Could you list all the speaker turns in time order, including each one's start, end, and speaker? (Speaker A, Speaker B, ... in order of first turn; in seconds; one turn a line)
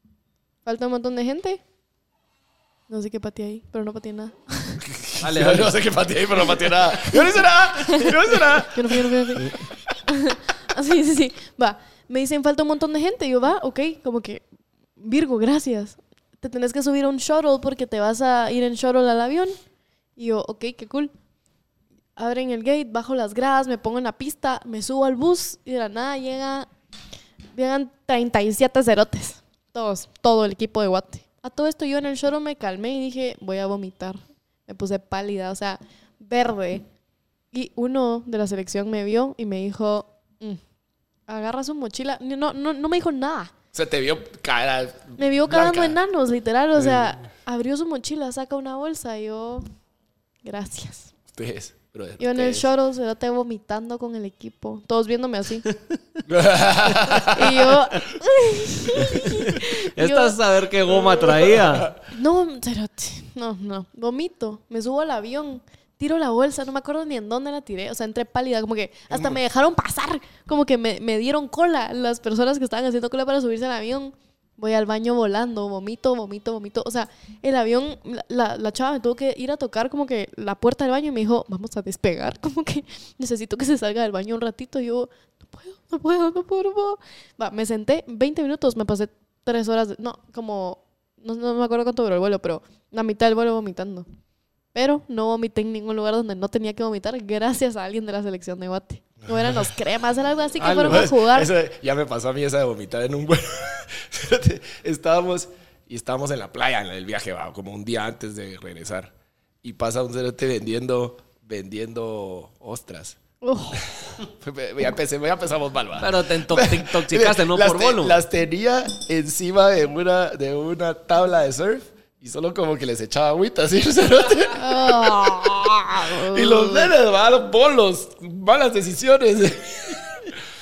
Speaker A: 0.7-1.6
Speaker A: 2.9-4.8
Speaker B: 4.8-9.7
Speaker C: 5.2-5.8
Speaker A: 7.9-8.1
Speaker A: 8.7-14.4
Speaker A: 15.0-19.5
Speaker A: 20.2-21.1
Speaker A: 22.2-26.7
Speaker A: 27.5-36.8
Speaker A: 37.5-40.6
Speaker A: 41.3-43.5
Speaker B: 43.7-46.0
Speaker A: 45.2-49.6
Speaker B: 46.8-47.1
Speaker A: 50.4-51.1
Speaker B: 51.3-52.7
Speaker A: 52.2-55.6
Speaker B: 56.2-57.8
Speaker A: 57.2-60.4
Speaker C: 59.1-61.9
Speaker B: 60.9-62.0
Speaker A: 62.1-94.0
Speaker B: 69.1-69.4
Speaker A: 94.7-101.5
Speaker B: 99.2-99.7
Speaker B: 100.6-109.1
Speaker B: 109.6-113.2
Speaker A: 113.4-113.8
Speaker B: 113.7-130.4
Speaker C: 116.0-118.2
Speaker A: 124.5-126.9